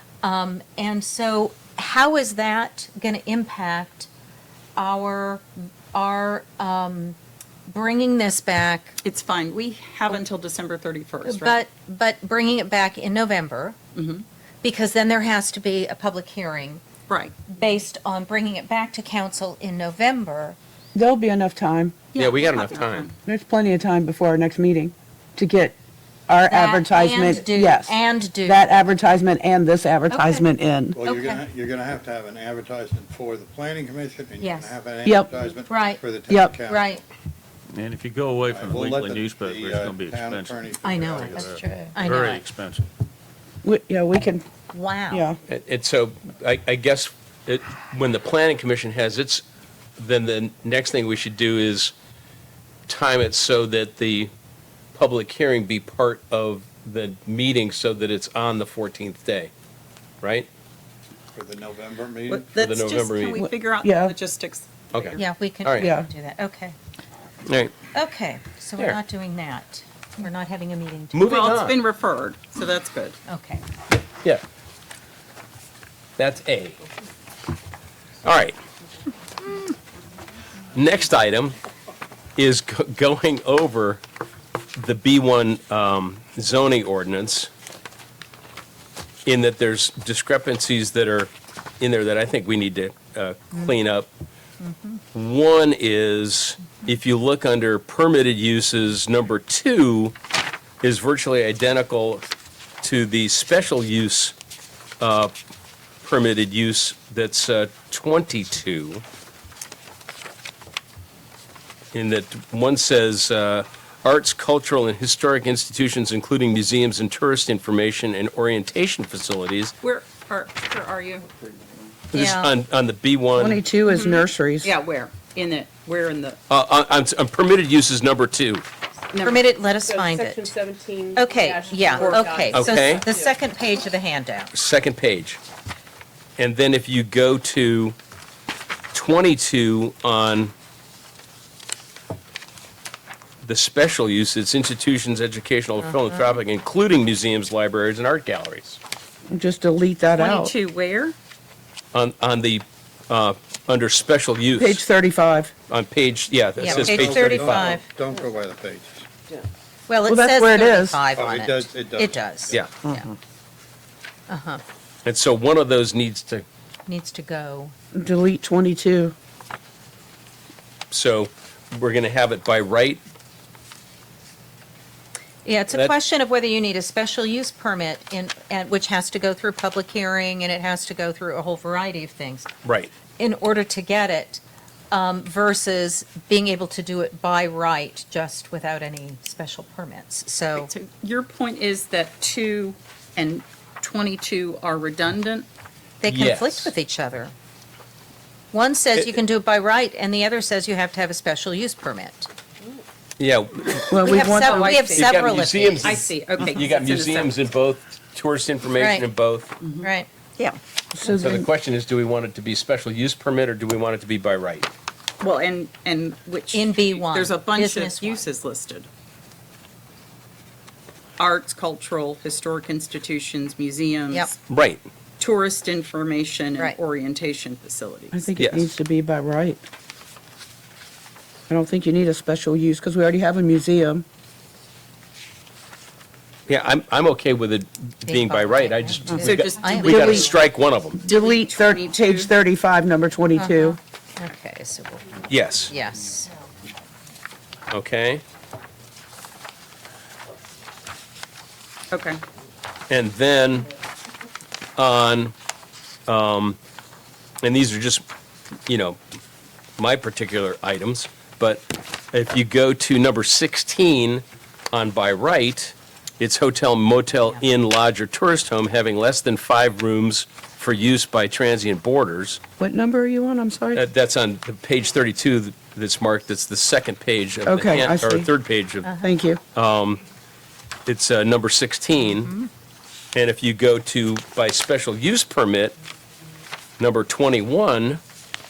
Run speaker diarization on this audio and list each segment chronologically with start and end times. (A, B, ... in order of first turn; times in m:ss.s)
0:00.2-0:04.1 A
0:04.8-0:07.2 A
0:07.7-0:09.0 A
0:09.0-0:11.6 B
0:11.2-0:13.8 A
0:13.9-0:14.2 B
0:14.6-0:16.8 A
0:17.1-0:17.4 B
0:17.5-0:20.6 A
0:20.9-0:21.9 C
0:22.1-0:23.1 B
0:22.2-0:23.1 D
0:23.2-0:25.7 C
0:26.3-0:31.0 C
0:26.4-0:28.8 A
0:30.1-0:30.5 A
0:30.9-0:37.0 E
0:31.0-0:31.4 A
0:34.4-0:34.8 A
0:35.0-0:35.3 C
0:35.7-0:36.0 A
0:36.3-0:36.6 C
0:36.6-0:37.0 A
0:37.7-0:42.9 F
0:38.5-0:41.5 E
0:40.8-0:42.4 A
0:43.6-0:44.4 C
0:44.7-0:45.3 A
0:45.1-0:45.4 C
0:45.5-0:49.4 D
0:50.0-0:51.9 D
0:52.9-0:54.3 D
0:54.9-0:59.5 D
1:00.2-1:00.5 D
1:01.3-1:02.7 E
1:02.3-1:05.2 B
1:02.6-1:03.4 D
1:03.4-1:04.1 C
1:04.9-1:05.9 D
1:05.2-1:06.8 A
1:05.8-1:06.1 C
1:07.5-1:07.7 D
1:07.9-1:11.3 A
1:11.1-1:11.8 D
1:11.2-1:13.2 B
1:13.3-1:13.6 A
1:16.2-1:16.8 D
1:18.2-1:18.6 D
1:20.7-1:21.6 D
1:22.4-1:24.0 D
1:24.8-1:27.5 D
1:29.2-1:34.1 D
1:35.1-1:40.1 D
1:40.8-1:42.2 D
1:42.8-1:44.3 D
1:45.0-1:45.3 D
1:46.0-1:49.0 D
1:51.9-1:59.7 D
1:59.8-2:01.3 B
2:02.1-2:02.5 A
2:02.1-2:03.6 D
2:03.3-2:04.7 C
2:03.8-2:06.4 B
2:06.5-2:08.6 D
2:09.1-2:09.4 B
2:09.2-2:10.5 A
2:09.8-2:13.0 G
2:11.1-2:14.5 A
2:11.9-2:12.4 B
2:12.5-2:13.0 D
2:14.5-2:15.4 D
2:16.4-2:18.0 D
2:18.9-2:20.5 D
2:23.4-2:28.8 D
2:29.3-2:30.5 C
2:30.2-2:31.1 B
2:31.9-2:34.8 D
2:34.6-2:35.5 C
2:35.7-2:37.8 D
2:36.6-2:37.8 A
2:36.6-2:39.1 E
2:39.9-2:43.1 A
2:40.1-2:41.0 C
2:41.1-2:42.6 E
2:44.3-2:44.6 A
2:45.0-2:46.4 D
2:46.8-2:47.7 A
2:47.9-2:49.1 C
2:50.9-2:53.0 D
2:55.4-3:02.5 A
3:02.6-3:02.9 D
3:03.1-3:10.7 A
3:10.5-3:15.4 B
3:16.0-3:17.3 A
3:16.1-3:16.7 D
3:18.5-3:22.3 A
3:23.2-3:24.1 D
3:23.9-3:25.0 C
3:24.0-3:26.0 A
3:24.3-3:24.9 B
3:24.9-3:29.5 D
3:25.8-3:27.4 B
3:28.7-3:29.1 A
3:29.6-3:30.6 B
3:29.8-3:30.1 A
3:30.9-3:31.4 C
3:31.1-3:34.7 D
3:35.2-3:38.9 B
3:36.5-3:38.2 A
3:41.2-3:44.4 B
3:44.5-3:44.9 D
3:45.2-3:48.2 B
3:48.1-3:49.6 C
3:48.4-3:48.7 D
3:51.5-3:54.0 C
3:56.5-4:01.0 D
3:58.0-4:00.3 A
3:59.2-4:00.3 B
3:59.8-4:00.3 C
4:01.0-4:02.3 B
4:01.0-4:03.8 C
4:03.4-4:06.3 A
4:05.3-4:05.7 D
4:07.7-4:08.2 D
4:11.9-4:12.2 B
4:12.9-4:13.7 D
4:14.8-4:15.3 D
4:16.1-4:16.6 D
4:17.4-4:18.0 D
4:18.7-4:19.0 D
4:19.8-4:32.4 D
4:32.6-4:33.8 C
4:33.7-4:38.9 D
4:37.4-4:38.3 C
4:38.8-4:39.1 A
4:39.0-4:39.4 C
4:39.5-4:40.0 D
4:40.8-4:42.3 D
4:42.2-4:42.5 A
4:43.1-4:45.7 D
4:46.8-4:48.0 D